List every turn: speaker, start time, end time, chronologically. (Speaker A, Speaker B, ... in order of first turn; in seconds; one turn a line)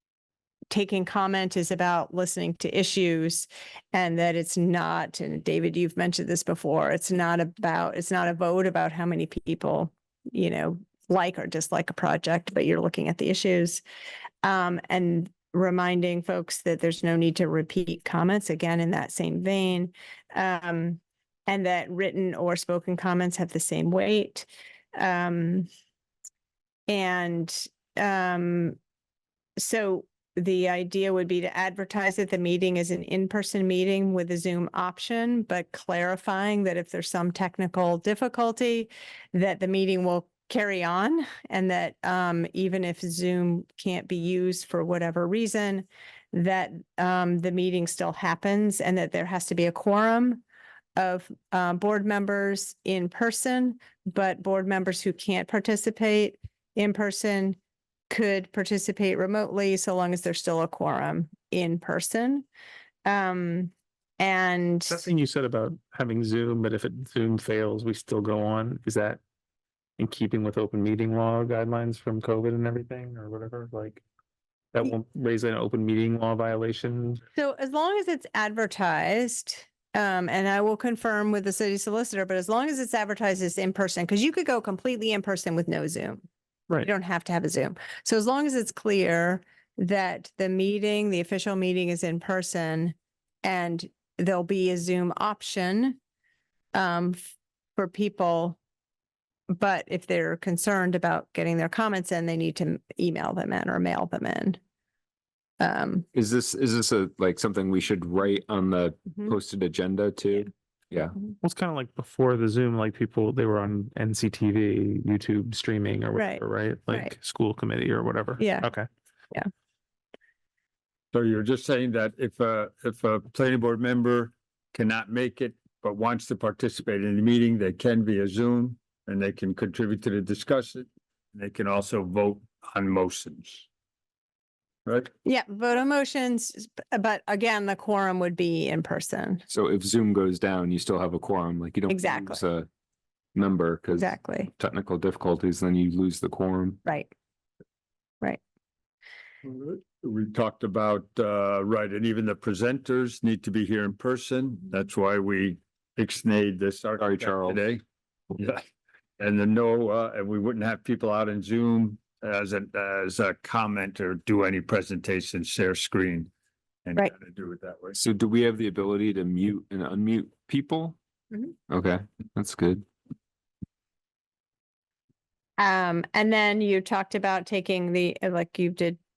Speaker A: 0.7-13.8
Speaker A: 14.4-25.7
Speaker A: 26.9-28.8
Speaker A: 29.6-50.4
Speaker A: 51.0-57.6
Speaker A: 58.1-62.5
Speaker A: 63.0-65.0
Speaker B: 64.9-69.2
Speaker B: 70.0-74.0
Speaker B: 74.7-77.2
Speaker A: 77.3-86.2
Speaker A: 86.8-96.0
Speaker A: 96.7-98.6
Speaker A: 99.5-104.6
Speaker A: 105.6-106.0
Speaker C: 106.1-111.2
Speaker B: 111.4-118.9
Speaker A: 116.2-117.1
Speaker A: 118.4-118.7
Speaker D: 121.1-133.7
Speaker A: 135.2-139.4
Speaker C: 139.5-142.7
Speaker A: 141.9-142.4
Speaker C: 143.3-146.8
Speaker A: 144.0-144.5
Speaker A: 146.8-147.1
Speaker D: 149.4-157.8
Speaker C: 157.0-157.6
Speaker D: 158.3-158.7
Speaker D: 159.2-166.3
Speaker D: 166.9-168.0
Speaker C: 168.0-171.0
Speaker C: 171.7-172.9
Speaker A: 175.6-179.0